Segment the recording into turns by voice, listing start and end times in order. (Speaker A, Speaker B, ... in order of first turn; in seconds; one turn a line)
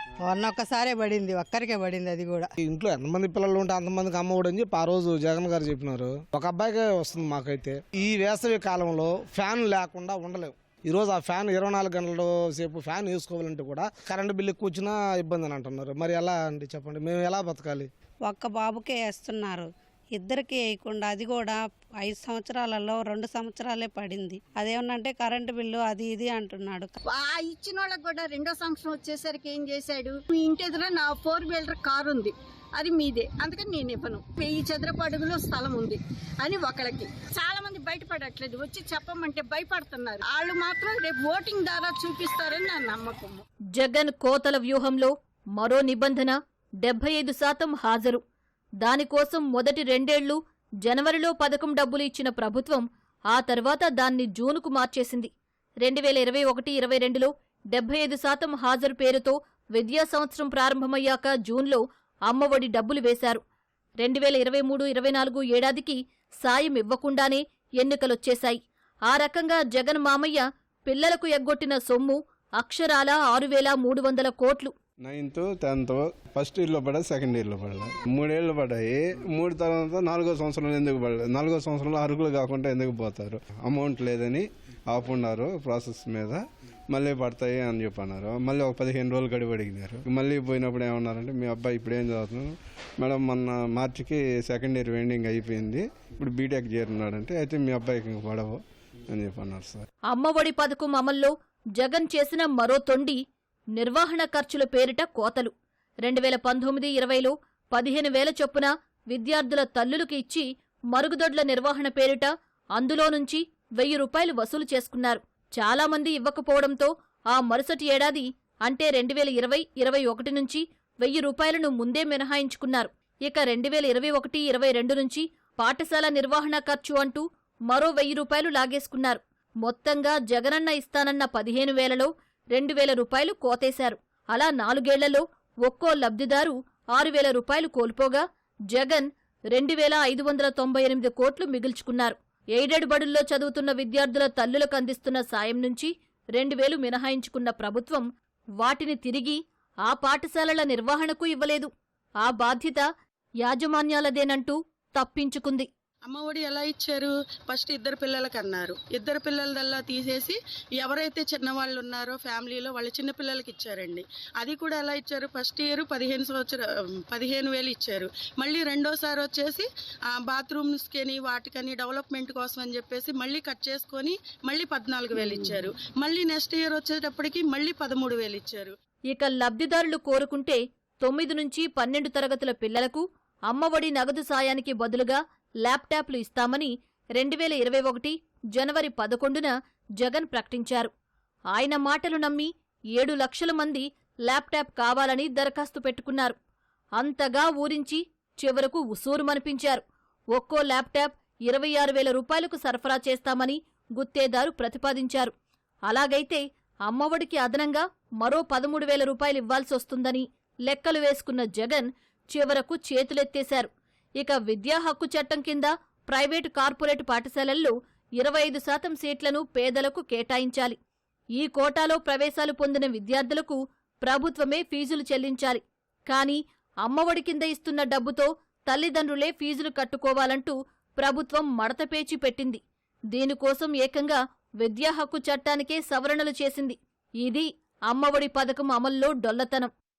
Speaker A: 0.2-2.5
Speaker B: 2.6-17.9
Speaker C: 18.2-26.9
Speaker D: 27.1-43.4
Speaker E: 43.8-48.2
Speaker E: 48.8-55.3
Speaker E: 55.8-63.4
Speaker E: 64.0-74.7
Speaker F: 75.0-98.6
Speaker F: 99.1-99.8
Speaker E: 100.1-103.2
Speaker E: 103.8-105.5
Speaker E: 106.0-148.1
Speaker E: 148.6-151.7
Speaker E: 152.2-152.8
Speaker E: 153.4-155.7
Speaker G: 156.1-178.7
Speaker E: 179.1-190.9
Speaker E: 191.5-196.3
Speaker E: 197.0-199.8
Speaker E: 200.3-205.3
Speaker E: 205.9-213.7
Speaker E: 214.2-220.8
Speaker E: 221.4-232.6
Speaker E: 233.1-239.7